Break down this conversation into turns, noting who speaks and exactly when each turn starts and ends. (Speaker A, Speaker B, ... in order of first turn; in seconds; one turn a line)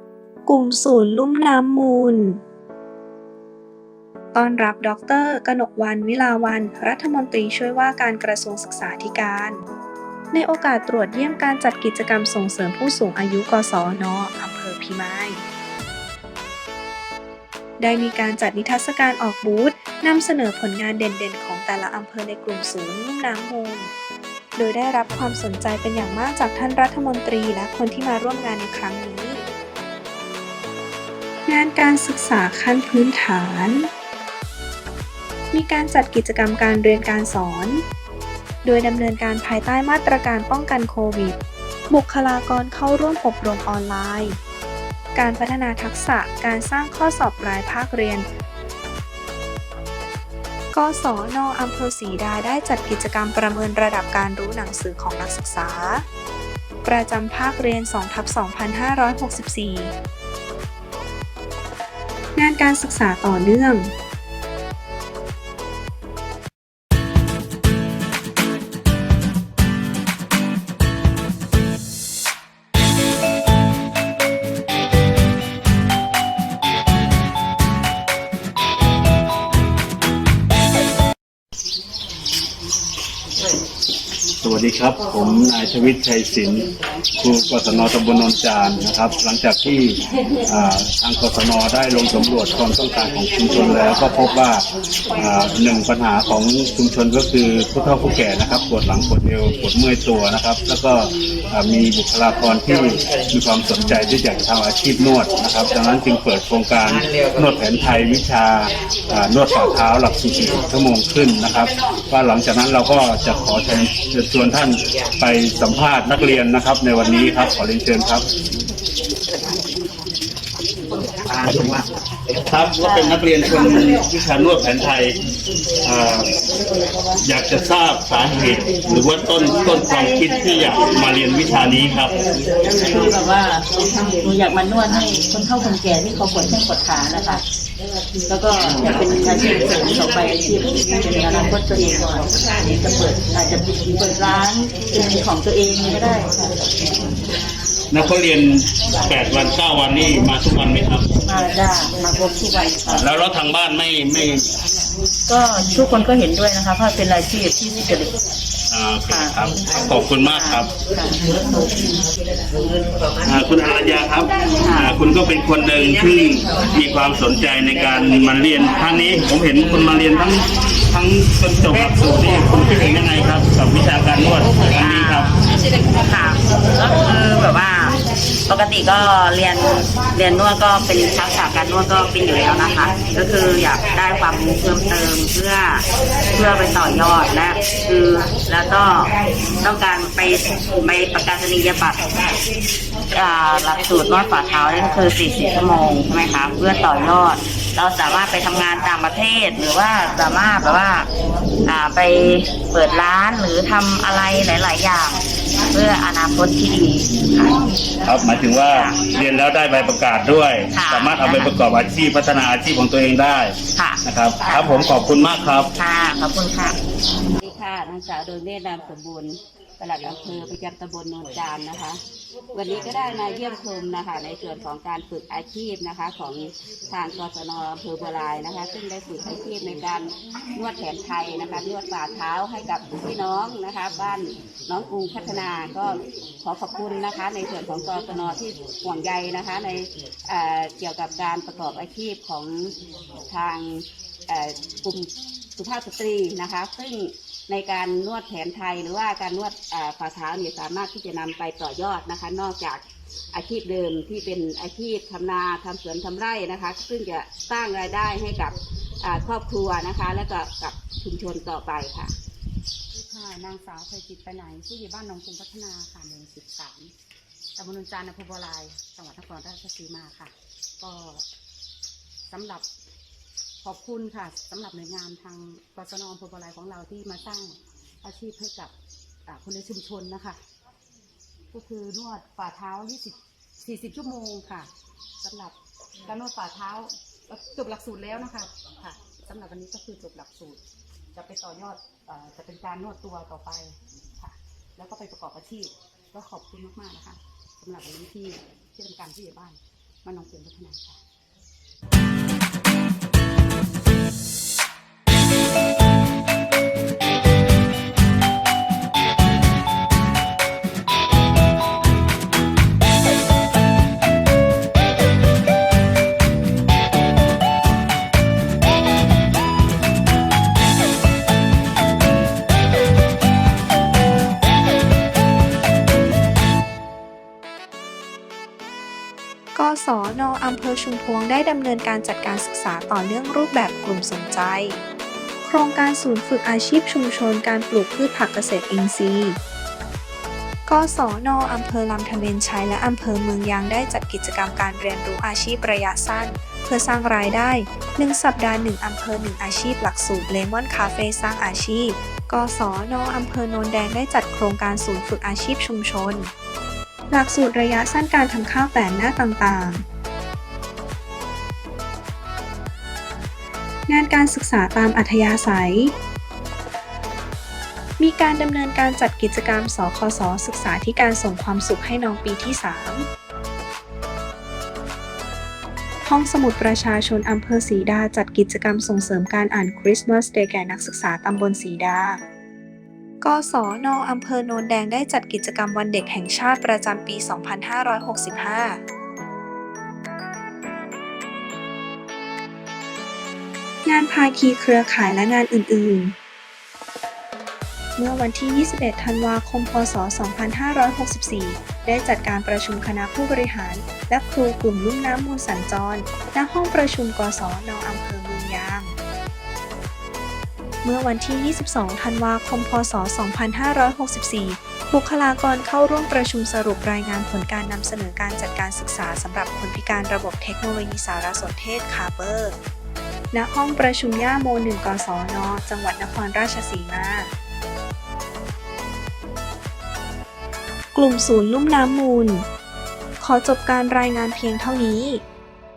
Speaker A: 0.5-2.4
Speaker A: 4.3-9.6
Speaker A: 10.3-15.4
Speaker A: 17.8-23.9
Speaker A: 24.6-29.5
Speaker A: 31.5-33.9
Speaker A: 35.5-37.8
Speaker A: 38.6-41.4
Speaker A: 41.9-44.4
Speaker A: 45.1-48.3
Speaker A: 50.7-56.0
Speaker A: 56.9-59.9
Speaker A: 62.4-63.9
Speaker B: 84.4-86.7
Speaker B: 87.2-94.7
Speaker B: 95.2-118.2
Speaker C: 118.6-121.2
Speaker B: 121.3-121.8
Speaker B: 122.5-125.2
Speaker B: 125.8-126.3
Speaker B: 127.2-132.1
Speaker D: 132.7-137.4
Speaker D: 138.3-146.4
Speaker B: 147.9-151.1
Speaker D: 151.3-153.0
Speaker B: 152.9-154.5
Speaker E: 155.3-158.1
Speaker B: 158.7-160.7
Speaker D: 160.3-161.2
Speaker B: 163.2-175.3
Speaker E: 174.8-175.3
Speaker E: 176.1-192.4
Speaker E: 193.1-201.1
Speaker E: 201.7-205.2
Speaker E: 205.7-207.6
Speaker B: 208.0-215.7
Speaker E: 208.3-209.0
Speaker E: 210.7-211.5
Speaker E: 213.8-214.9
Speaker E: 215.8-216.8
Speaker F: 217.4-222.0
Speaker F: 222.5-262.1
Speaker C: 262.9-266.9
Speaker C: 267.6-271.3
Speaker C: 272.3-272.7
Speaker C: 273.6-278.7
Speaker C: 279.3-280.4
Speaker C: 281.5-290.6
Speaker C: 291.1-301.0
Speaker A: 329.6-334.8
Speaker A: 335.4-339.4
Speaker A: 340.7-356.3
Speaker A: 357.1-359.9
Speaker A: 363.9-365.9
Speaker A: 368.0-373.1
Speaker A: 376.0-382.2
Speaker A: 383.2-388.8
Speaker A: 393.9-396.1
Speaker A: 398.0-409.0
Speaker A: 410.8-422.6
Speaker A: 423.3-427.3
Speaker A: 430.9-432.5
Speaker A: 433.2-435.2